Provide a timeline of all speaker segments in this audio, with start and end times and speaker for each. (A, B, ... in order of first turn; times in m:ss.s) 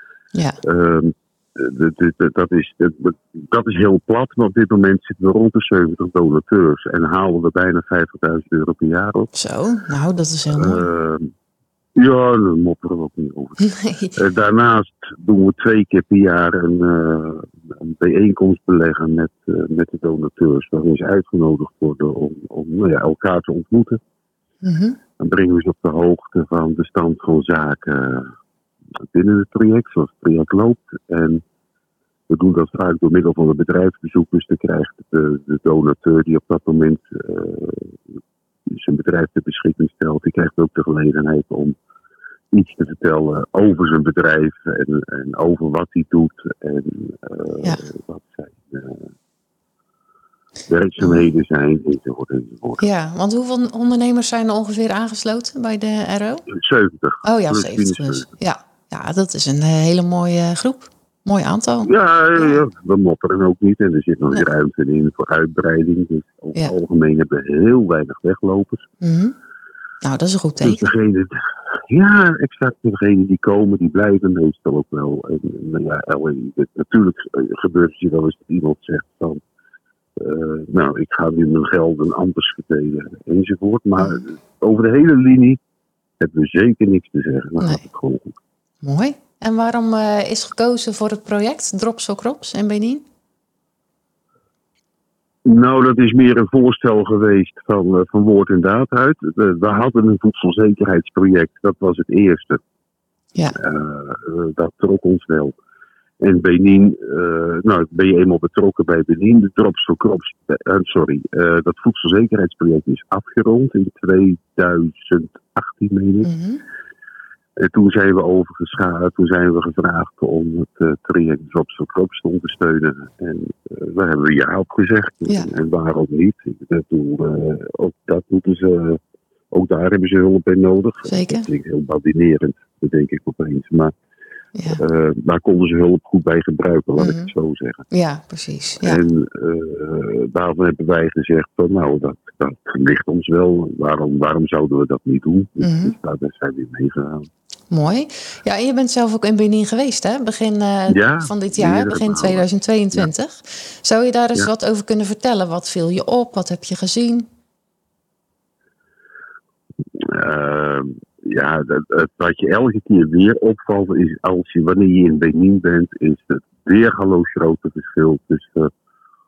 0:00.6-0:09.3 A
0:09.3-0:10.9 B
0:10.5-0:11.3 A
0:12.0-0:13.6 A
0:13.6-0:14.1 B
0:14.2-0:24.0 A
0:24.6-0:25.0 B
0:25.2-0:28.3 A
0:29.1-0:31.4 A
0:32.3-0:38.0 A
0:38.7-0:41.8 A
0:42.5-0:49.1 A
0:50.7-0:52.8 A
0:52.8-0:56.4 B
0:56.5-0:58.3 A
0:57.2-1:02.6 B
1:01.8-1:08.9 A
1:09.0-1:09.4 B
1:10.0-1:10.9 B
1:10.6-1:11.4 A
1:11.9-1:19.4 A
1:20.2-1:25.6 A
1:26.2-1:28.4 A
1:28.8-1:33.0 B
1:35.4-1:42.6 A
1:43.6-1:45.6 A
1:46.2-1:56.3 A
1:56.2-1:56.6 B
1:57.6-2:09.0 A
2:09.5-2:13.9 A
2:11.1-2:11.5 B
2:14.7-2:17.8 A
2:17.0-2:17.3 B
2:17.9-2:19.0 B
2:18.8-2:27.3 A
2:25.6-2:26.0 B
2:27.7-2:37.3 B
2:30.9-2:32.4 A
2:40.0-2:48.7 A